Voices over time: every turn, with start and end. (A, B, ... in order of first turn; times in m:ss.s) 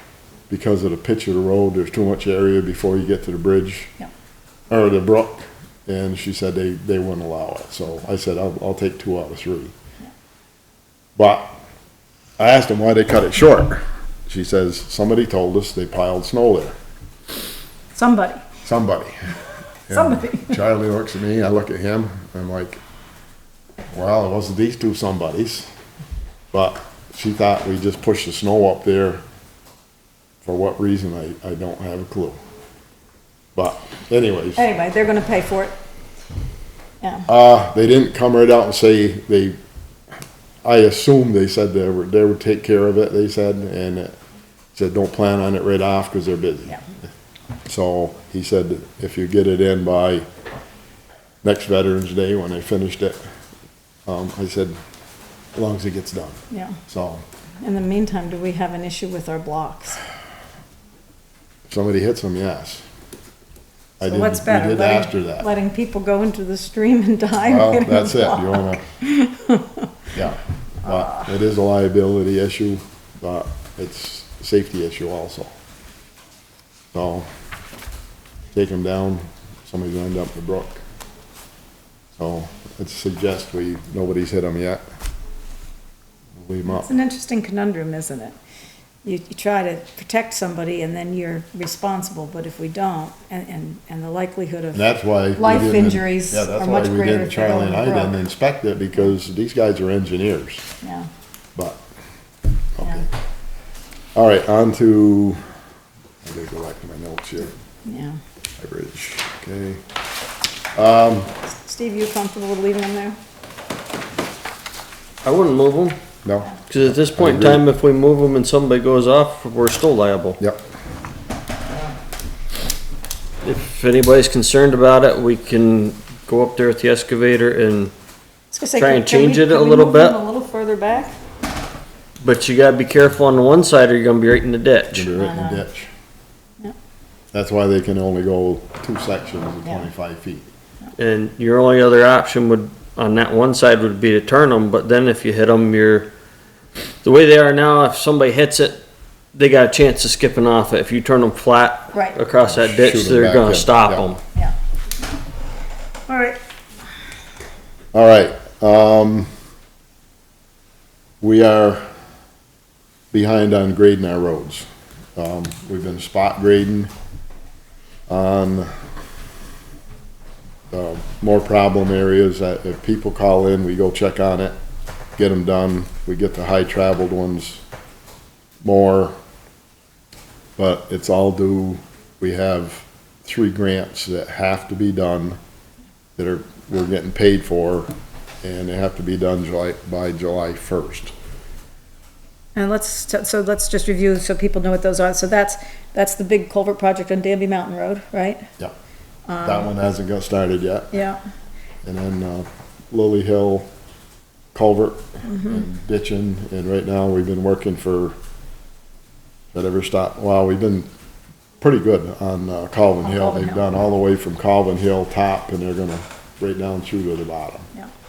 0:00.5-0:04.0 A
0:04.7-0:09.7 A
0:11.2-0:11.6 A
0:12.4-0:16.7 A
0:18.0-0:18.5 B
0:18.6-0:22.8 A
0:19.9-0:20.6 B
0:23.9-0:25.7 A
0:26.5-0:29.2 A
0:30.4-0:32.4 A
0:33.6-0:34.7 A
0:34.6-0:35.8 B
0:37.0-0:37.3 B
0:37.3-0:39.6 A
0:40.6-0:44.2 A
0:44.7-0:46.8 A
0:47.7-0:50.3 A
0:51.4-0:53.2 A
0:54.1-0:54.8 A
0:55.5-0:57.2 A
0:56.5-0:56.8 B
0:57.6-1:00.0 B
1:01.7-1:02.8 A
1:04.0-1:05.5 A
1:04.0-1:10.1 B
1:07.4-1:08.9 A
1:10.1-1:15.5 A
1:10.9-1:11.3 B
1:16.9-1:17.3 A
1:18.5-1:20.8 A
1:22.2-1:24.8 A
1:26.4-1:26.9 A
1:26.6-1:28.4 B
1:29.0-1:38.2 B
1:34.7-1:40.7 A
1:40.8-1:41.1 B
1:41.6-1:41.8 A
1:42.8-1:43.1 A
1:44.2-1:45.4 A
1:46.2-1:47.5 A
1:47.8-1:48.2 B
1:48.6-1:49.8 A
1:50.8-1:51.4 A
1:51.5-1:53.2 B
1:55.2-1:56.0 C
1:56.2-1:57.6 A
1:56.7-2:00.4 C
2:03.4-2:07.9 C
2:08.5-2:11.2 B
2:08.8-2:10.2 C
2:12.2-2:15.1 C
2:14.9-2:15.9 A
2:15.1-2:15.6 B
2:17.3-2:20.5 A
2:21.0-2:26.1 C
2:27.0-2:28.8 C
2:29.3-2:34.2 C
2:31.9-2:32.2 B
2:32.5-2:34.1 A
2:36.1-2:36.4 B
2:37.9-2:39.3 A
2:41.2-2:41.9 A
2:43.1-2:46.9 A
2:48.1-2:48.7 A
2:50.7-2:54.6 A
2:55.2-2:57.6 A
2:58.6-2:59.2 A
3:00.6-3:05.4 A
3:06.2-3:07.9 A
3:08.4-3:11.1 A
3:12.6-3:18.5 B
3:19.3-3:19.7 B
3:19.4-3:21.0 A
3:20.9-3:21.2 B
3:21.8-3:23.7 A
3:24.5-3:28.2 A
3:25.3-3:25.6 B
3:29.5-3:30.9 A
3:31.6-3:37.7 A
3:33.0-3:33.6 B